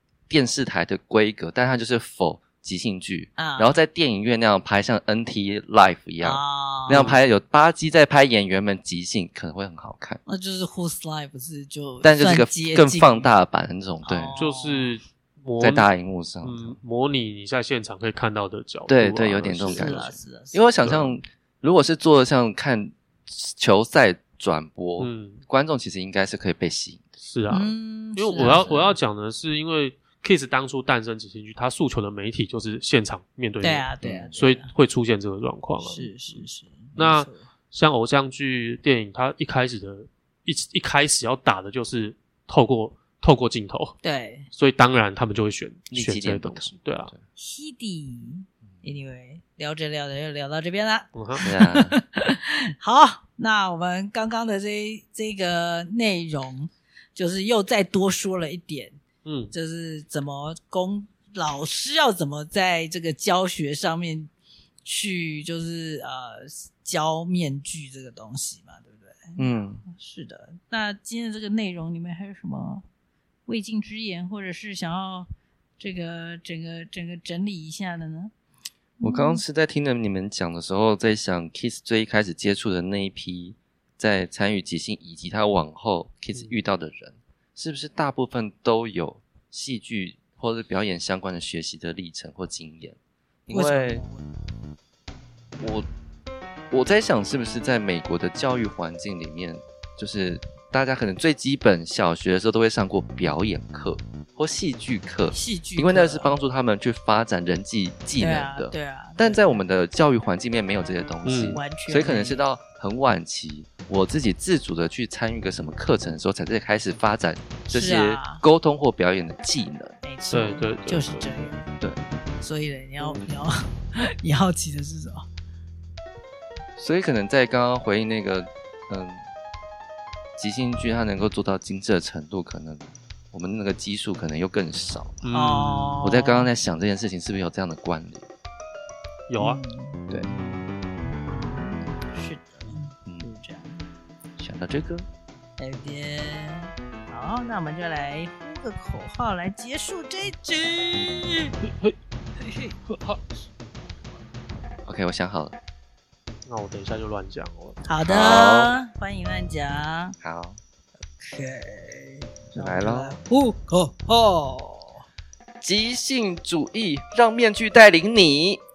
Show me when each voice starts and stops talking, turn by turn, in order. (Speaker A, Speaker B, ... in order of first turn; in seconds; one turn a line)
Speaker A: 0.3-10.2
Speaker B: 3.4-3.8
Speaker B: 6.2-7.0
Speaker C: 6.9-7.2
Speaker B: 10.2-13.3
Speaker A: 12.0-14.3
Speaker B: 14.0-14.9
Speaker C: 14.3-15.9
Speaker A: 15.6-16.8
Speaker C: 16.4-20.0
Speaker A: 18.9-27.0
Speaker B: 19.7-20.7
Speaker C: 20.8-21.1
Speaker C: 25.0-25.4
Speaker C: 27.2-36.4
Speaker B: 27.5-28.8
Speaker A: 28.4-28.9
Speaker B: 33.6-34.7
Speaker A: 34.0-34.3
Speaker B: 35.8-37.4
Speaker C: 37.0-44.0
Speaker B: 44.0-44.5
Speaker C: 44.5-47.1
Speaker A: 45.9-47.2
Speaker B: 47.4-59.0
Speaker C: 51.1-51.4
Speaker A: 51.4-51.9
Speaker C: 59.2-59.5
Speaker B: 59.5-64.3
Speaker B: 64.8-72.8
Speaker A: 69.4-69.8
Speaker B: 73.5-78.3
Speaker B: 79.0-79.4
Speaker A: 79.0-93.0
Speaker A: 93.5-94.0
Speaker B: 93.5-94.3
Speaker A: 95.6-95.8
Speaker A: 96.7-120.0
Speaker B: 105.3-106.4
Speaker B: 108.2-109.6
Speaker C: 111.2-111.6
Speaker B: 111.5-112.4
Speaker B: 117.7-118.4
Speaker B: 120.0-121.7
Speaker C: 120.3-121.3
Speaker B: 122.4-125.2
Speaker A: 126.8-129.2
Speaker A: 130.4-135.2
Speaker C: 135.2-136.0
Speaker B: 135.3-136.5
Speaker A: 136.0-138.2
Speaker C: 139.3-139.6
Speaker B: 139.4-143.8
Speaker A: 143.0-143.3
Speaker A: 144.4-145.1
Speaker B: 145.6-151.5
Speaker C: 151.6-151.9
Speaker B: 152.4-152.8
Speaker C: 152.9-153.2
Speaker A: 154.8-155.6
Speaker C: 156.5-157.8
Speaker B: 157.8-160.2
Speaker A: 158.1-158.7
Speaker A: 160.2-160.6
Speaker B: 161.2-165.0
Speaker A: 162.5-163.2
Speaker A: 165.6-168.6